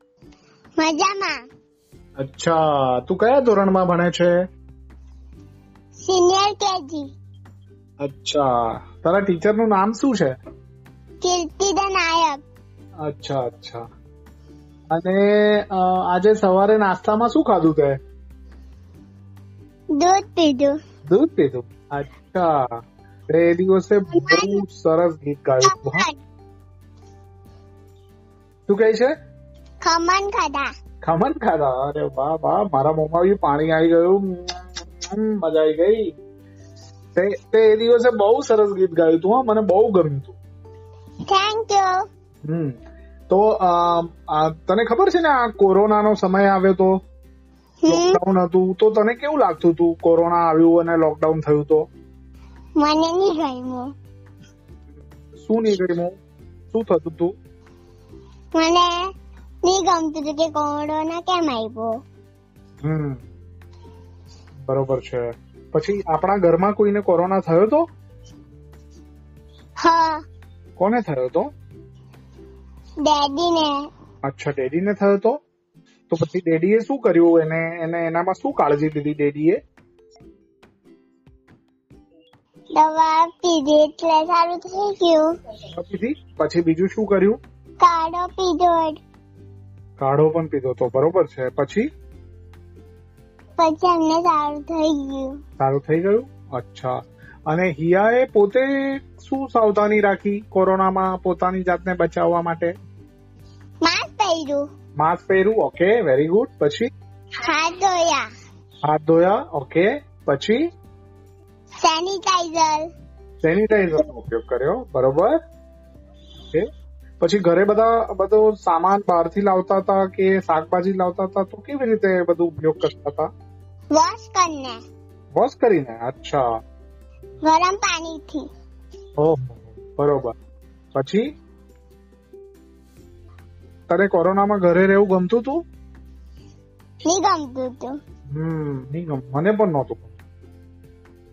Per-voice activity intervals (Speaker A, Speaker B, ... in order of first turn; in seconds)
Speaker A: 0.8-1.4, 6.0-7.1, 11.2-12.4, 19.9-20.8, 24.1-24.6, 25.6-26.2, 29.8-30.7, 41.3-42.0, 47.8-48.2, 52.8-53.9, 58.6-58.9, 59.6-61.9, 69.8-70.2, 73.0-73.8, 82.8-85.3, 87.8-89.0, 93.6-95.4, 103.8-104.7, 107.4-108.3, 111.8-112.9, 123.9-124.8, 127.5-128.4, 137.1-138.0
Speaker B: 2.2-4.4, 8.0-10.3, 13.0-13.8, 14.9-18.0, 21.1-26.1, 28.7-29.1, 31.0-36.1, 37.2-40.4, 42.5-42.8, 43.3-47.0, 47.9-51.9, 55.4-56.1, 56.7-57.3, 62.8-63.2, 64.7-67.9, 70.8-71.5, 74.2-75.4, 76.1-79.6, 85.7-87.4, 90.0-91.9, 95.6-97.0, 97.5-102.7, 105.0-106.9, 108.8-110.6, 113.4-115.4, 117.2-123.3, 125.4-126.5, 129.2-130.3, 130.9-131.3, 133.9-135.6, 138.3-140.1